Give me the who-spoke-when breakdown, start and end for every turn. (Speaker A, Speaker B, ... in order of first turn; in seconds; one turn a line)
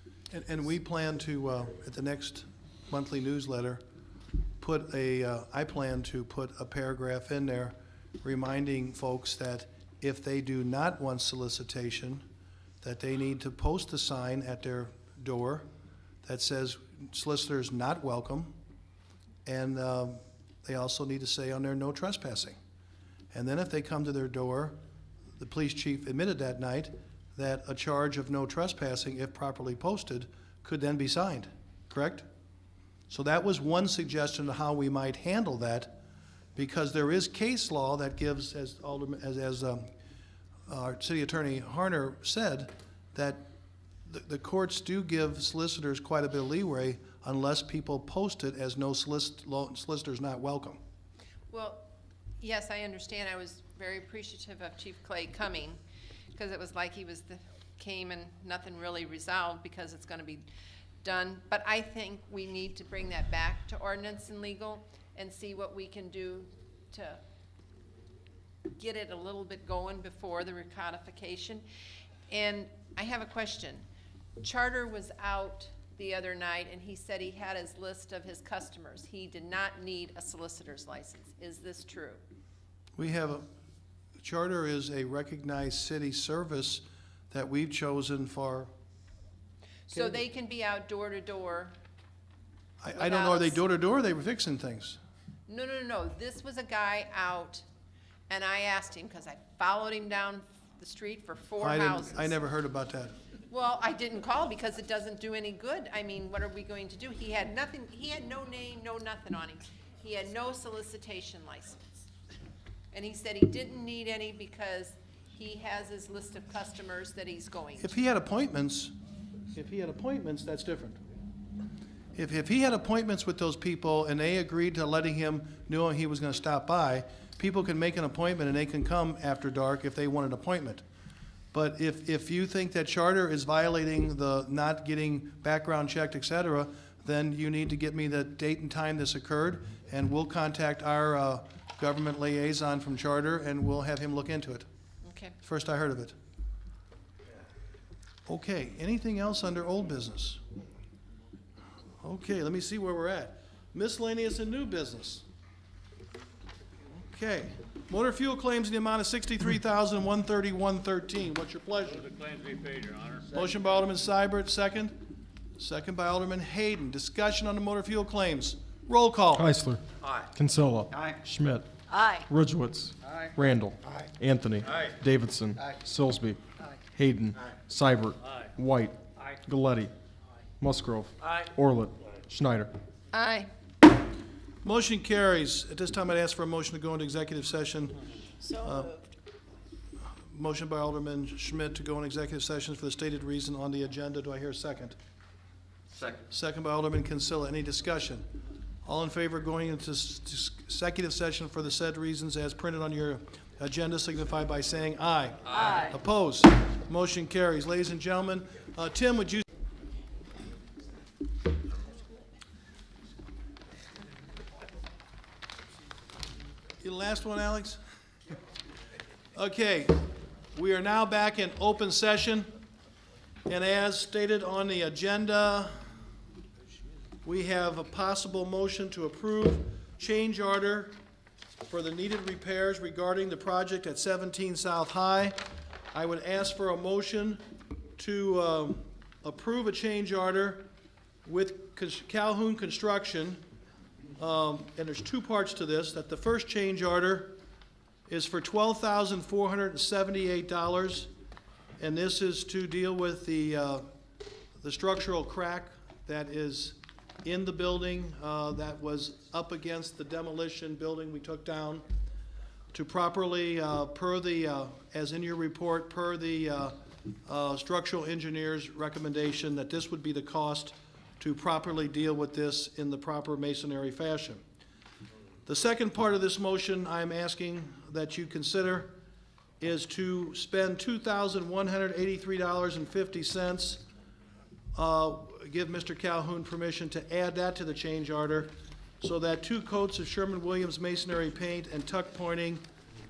Speaker A: 0.3-3.8
Speaker A: 4.6-12.2
Speaker A: 12.8-15.7
Speaker A: 16.2-18.5
Speaker A: 19.4-22.6
Speaker A: 23.3-24.8
Speaker A: 25.4-32.2
Speaker A: 33.1-36.0
Speaker A: 36.5-39.9
Speaker A: 40.7-43.4
Speaker A: 44.0-50.8
Speaker B: 51.5-51.8
Speaker B: 52.4-55.8
Speaker B: 56.4-60.5
Speaker B: 61.0-67.2
Speaker B: 68.7-71.6
Speaker B: 72.3-73.8
Speaker B: 74.4-82.2
Speaker A: 83.0-83.5
Speaker A: 84.2-88.7
Speaker B: 89.9-91.8
Speaker A: 89.9-90.2
Speaker A: 92.8-95.0
Speaker B: 92.9-93.6
Speaker B: 95.5-97.6
Speaker B: 98.3-102.4
Speaker A: 101.6-103.1
Speaker B: 103.5-111.8
Speaker B: 112.9-118.0
Speaker A: 117.8-118.9
Speaker A: 119.5-121.0
Speaker A: 122.1-130.8
Speaker A: 131.5-144.7
Speaker B: 145.0-145.3
Speaker A: 145.4-146.1
Speaker A: 148.2-150.4
Speaker A: 152.0-155.2
Speaker A: 157.0-162.1
Speaker C: 162.1-163.2
Speaker A: 163.3-164.9
Speaker A: 165.6-169.5
Speaker D: 169.3-171.7
Speaker C: 171.9-172.2
Speaker D: 172.2-176.4
Speaker D: 176.9-179.9
Speaker D: 180.6-182.7
Speaker B: 183.1-183.5
Speaker A: 184.6-188.0
Speaker C: 188.4-189.1
Speaker A: 188.6-188.9
Speaker A: 190.2-195.0
Speaker A: 196.3-198.2
Speaker A: 198.8-209.4
Speaker C: 205.6-205.9
Speaker A: 216.8-217.8
Speaker A: 219.3-220.0
Speaker A: 220.5-222.5
Speaker A: 223.5-225.8
Speaker A: 227.2-231.0
Speaker A: 231.7-235.4
Speaker A: 235.9-237.4
Speaker A: 238.0-240.7
Speaker A: 241.2-243.4
Speaker A: 244.2-247.4
Speaker A: 248.1-251.1
Speaker A: 251.8-253.8
Speaker A: 254.6-261.9
Speaker A: 262.7-274.4
Speaker A: 275.4-278.9
Speaker A: 279.6-283.8
Speaker A: 284.8-292.6